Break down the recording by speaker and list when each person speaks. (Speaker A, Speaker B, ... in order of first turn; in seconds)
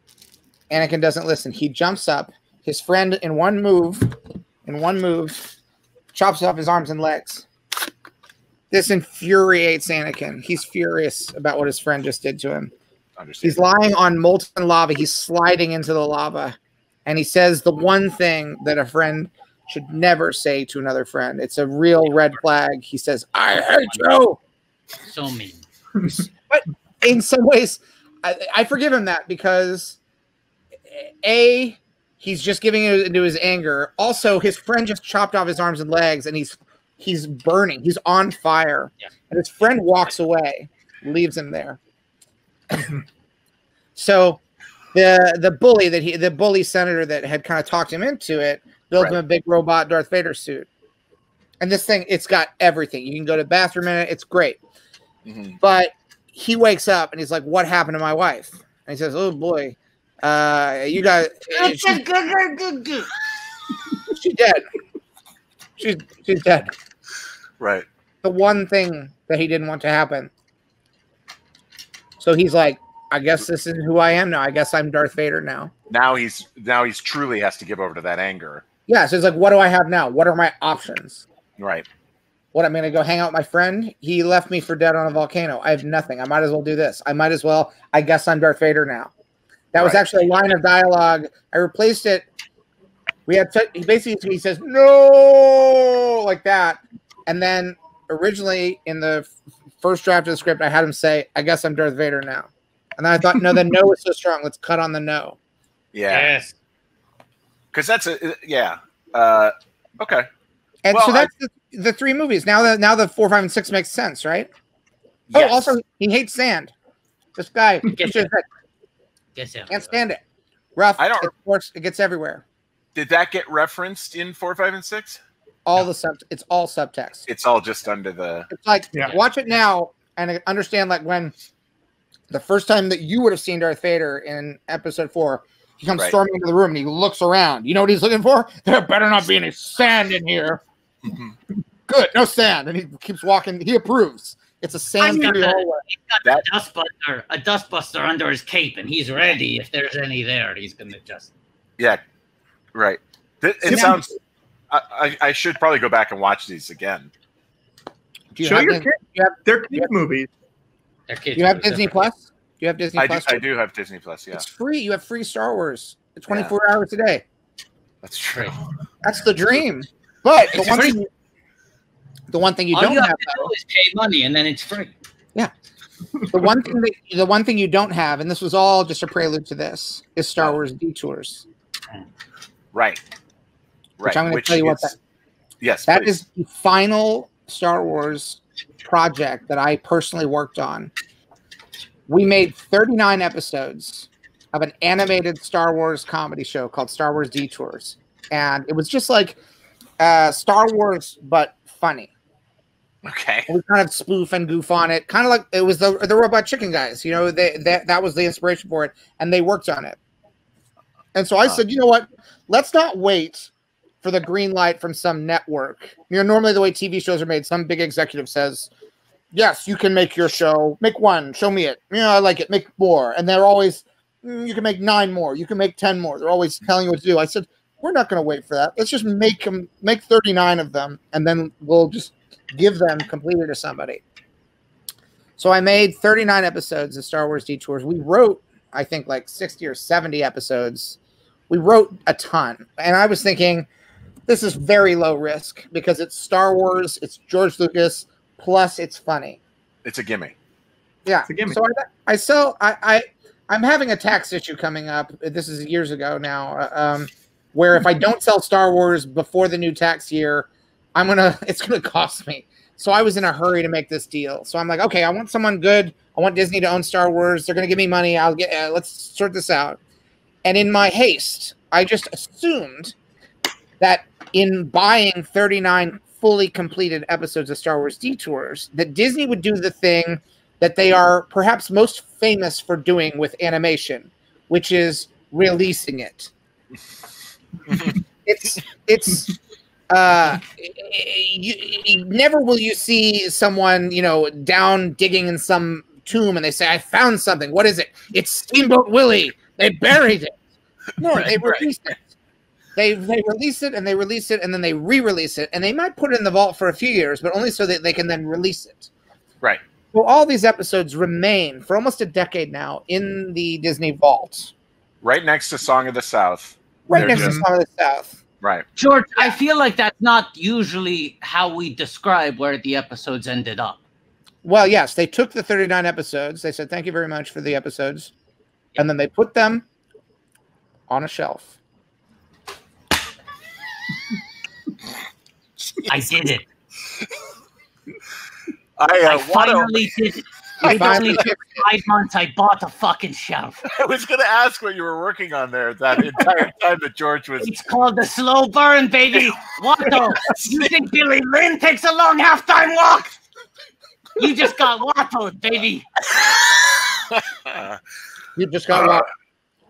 Speaker A: 0.7-5.5, 6.1-7.5, 8.7-12.7, 13.4-24.4, 26.5-30.0, 30.9-41.8, 42.7-43.0, 44.0-44.4, 44.9-50.7, 51.6-54.6, 55.6-62.0, 64.1-64.6, 65.8-66.7, 68.2-70.3, 72.2-75.7, 78.9-81.2, 82.5-89.1, 89.7-92.2, 93.3-99.3, 99.8-105.4, 110.8-114.5, 115.3-116.7, 117.4-118.4, 119.7-120.2, 120.8-122.4, 125.7-127.3, 128.5-131.3, 132.3-140.6, 141.9-145.8, 153.7-154.2, 158.3-159.9, 161.4-163.4, 164.3-167.2, 169.0-171.1, 172.3-173.5, 176.3-181.4, 184.0-185.0, 185.9-190.9, 192.1-199.4, 200.0-202.1, 203.5-210.0, 211.2-213.5, 214.0-218.7, 219.3-234.0, 235.4-241.0, 241.5-243.7, 244.3-249.4, 251.1-269.8, 270.4-272.9, 273.8-286.3, 288.3-289.3, 289.9-300.3, 301.0-302.1, 302.8-308.9, 309.9-314.5, 316.9-318.2, 324.4-328.1, 328.8-329.6, 330.9-331.5, 340.6-341.6, 358.4-359.1
Speaker B: 13.2-13.6, 55.3-55.6, 67.6-67.9, 75.9-78.6, 81.6-81.9, 89.8-90.5, 105.9-106.3, 107.7-110.3, 110.9-111.3, 115.3-115.8, 121.0-121.3, 123.0-125.2, 127.3-128.5, 141.1-141.3, 152.7-154.1, 154.7-157.1, 163.0-164.4, 168.0-168.6, 170.5-170.9, 182.7-183.0, 184.0-184.9, 185.6-186.2, 203.1-203.5, 249.8-250.3, 287.7-287.9, 301.0-301.7, 315.0-317.4, 335.7-336.1, 338.8-339.9, 340.6-341.2, 343.6-347.5, 350.3-350.7, 356.1-357.8, 358.7-359.0
Speaker C: 25.0-25.6, 61.5-63.1, 106.1-106.5, 118.0-118.2, 119.3-120.0, 145.0-151.3, 161.1-162.1, 172.7-174.9, 318.8-323.8, 335.9-336.5, 339.1-343.6, 347.4-353.1, 354.2-355.9
Speaker D: 158.4-160.3, 251.3-251.6, 317.0-317.4